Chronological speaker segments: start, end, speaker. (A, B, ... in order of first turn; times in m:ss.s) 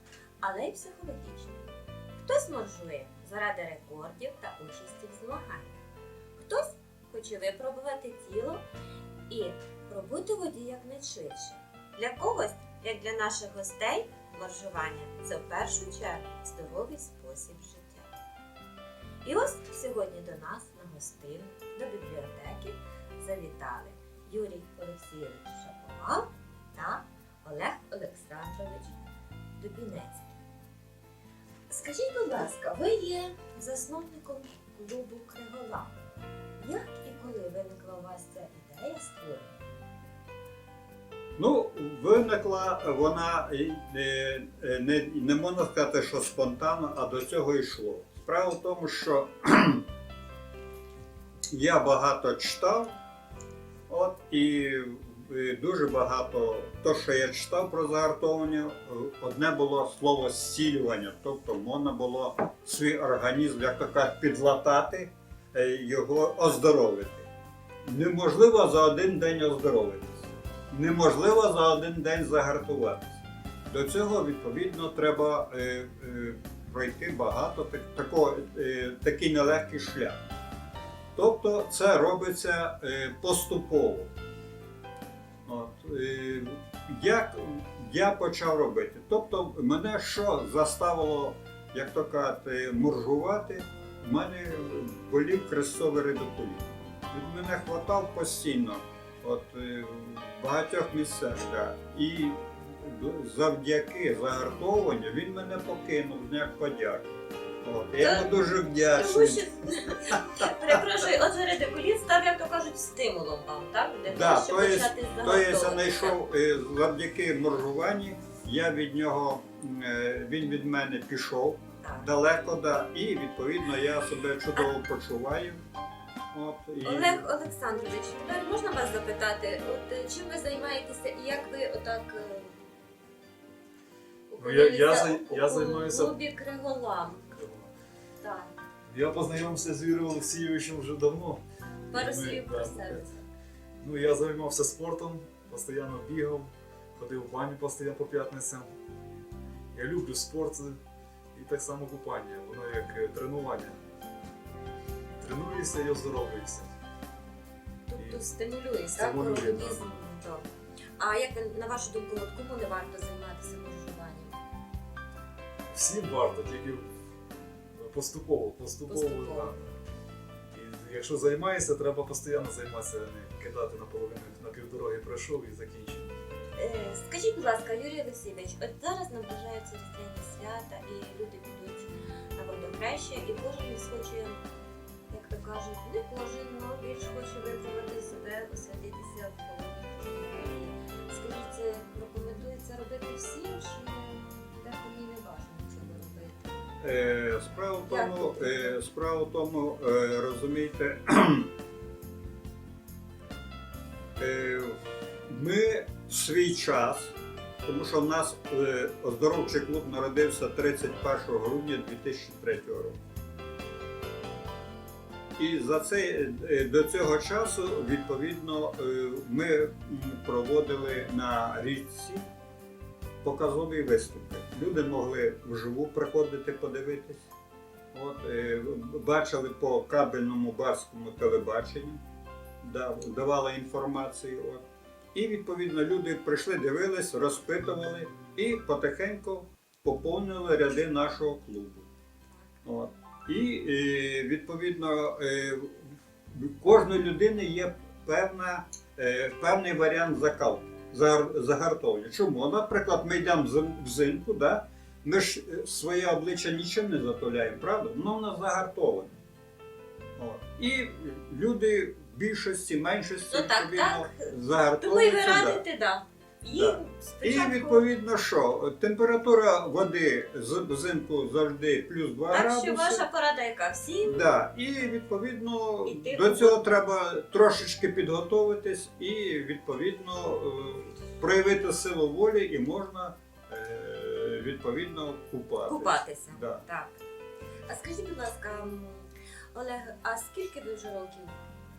0:00.4-0:01.7 A
0:02.2-0:05.8 A
0:06.4-0:08.6 A
0:09.3-0:18.1 A
0:19.2-0:29.0 A
0:29.6-0:30.4 A
0:31.7-0:35.9 A
0:36.6-0:39.6 A
0:41.4-0:49.8 B
0:51.5-0:52.9 B
0:53.9-1:07.3 B
1:07.9-1:20.2 B
1:21.2-1:24.1 B
1:25.4-1:47.1 B
1:47.6-1:49.5 B
1:48.0-1:56.2 A
1:54.1-2:05.6 B
2:01.8-2:02.1 A
2:06.3-2:07.3 B
2:06.8-2:12.6 A
2:14.3-2:17.3 A
2:14.4-2:16.1 C
2:17.3-2:17.7 C
2:18.2-2:18.5 A
2:18.9-2:23.0 C
2:21.9-2:23.3 A
2:23.8-2:28.7 C
2:29.7-2:30.8 C
2:31.3-2:33.8 C
2:35.2-2:36.7 C
2:37.9-2:40.4 A
2:39.0-2:39.9 C
2:41.0-2:44.4 A
2:45.7-2:46.9 C
2:47.8-2:49.7 C
2:48.9-2:49.5 A
2:50.5-2:56.1 C
2:56.6-3:04.4 A
3:05.1-3:16.5 A
3:16.8-3:21.5 B
3:17.9-3:18.8 A
3:24.2-3:33.0 B
3:35.4-3:42.3 B
3:43.2-3:47.2 B
3:47.9-3:52.0 B
3:52.6-3:54.6 B
3:55.1-4:01.9 B
4:02.6-4:19.2 B
4:20.2-4:25.6 B
4:23.3-4:27.8 A
4:26.6-4:33.0 B
4:32.3-4:34.3 A
4:34.0-4:46.6 B
4:35.8-4:36.6 A
4:45.7-4:46.9 A
4:47.7-4:51.4 A